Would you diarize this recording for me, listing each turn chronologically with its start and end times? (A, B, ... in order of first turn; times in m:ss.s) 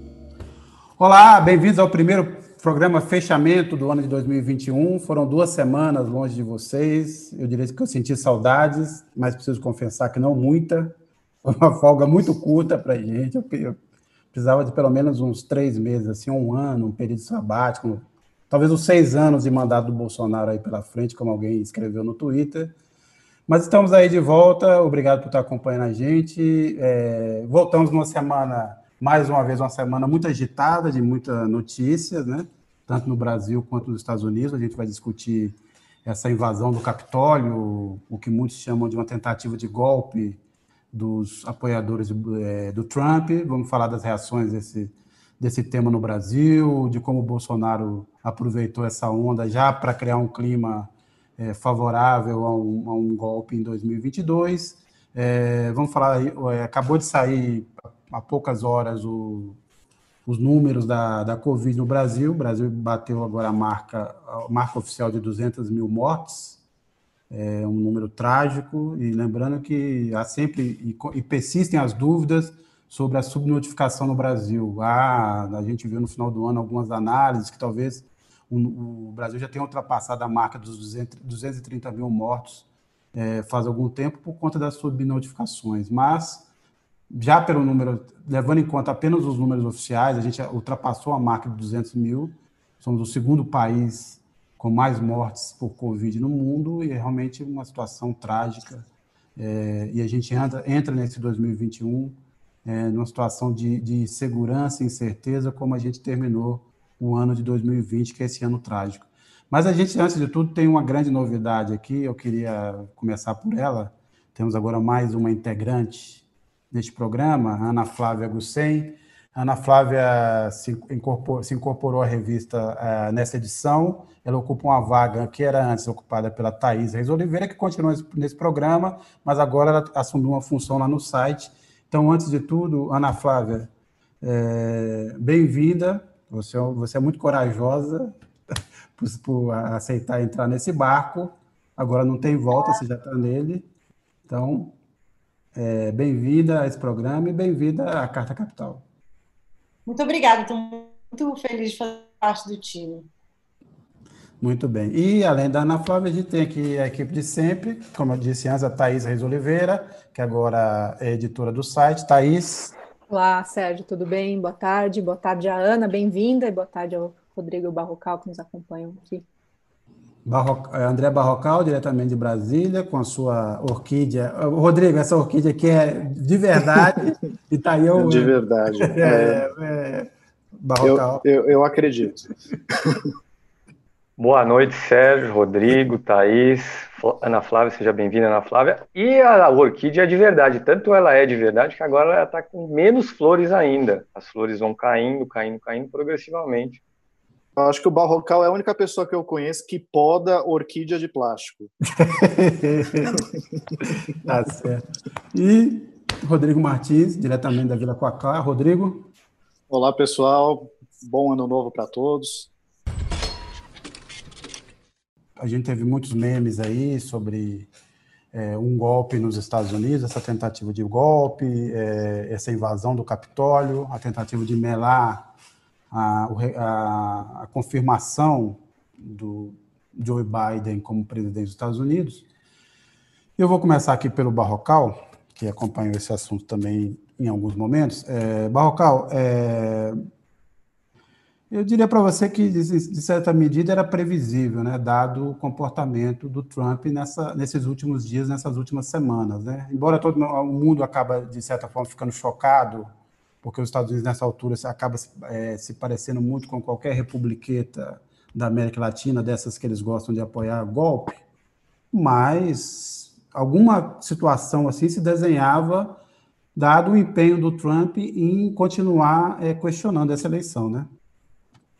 0:01.0-0:13.8 A
0:14.3-0:22.7 A
0:23.5-0:40.4 A
0:40.9-0:59.6 A
1:00.2-1:06.6 A
1:07.3-1:26.5 A
1:27.1-2:13.7 A
2:14.2-2:18.1 A
2:18.9-2:23.7 A
2:24.3-2:24.7 A
2:25.5-2:28.8 A
2:29.9-2:33.1 B
2:34.4-2:42.7 A
2:43.1-2:49.2 C
2:50.2-3:01.2 A
2:58.0-2:59.4 D
3:00.8-3:03.0 D
3:04.2-3:16.8 E
3:17.6-3:21.7 D
3:22.0-3:23.2 A
3:24.2-3:29.1 A
3:29.7-3:32.5 D
3:35.4-3:37.7 A
3:38.3-3:45.3 A
3:45.9-3:52.2 A
3:53.4-4:00.0 A
4:01.5-4:12.9 A
4:13.4-4:21.2 A
4:21.9-4:26.0 A
4:26.5-4:30.9 A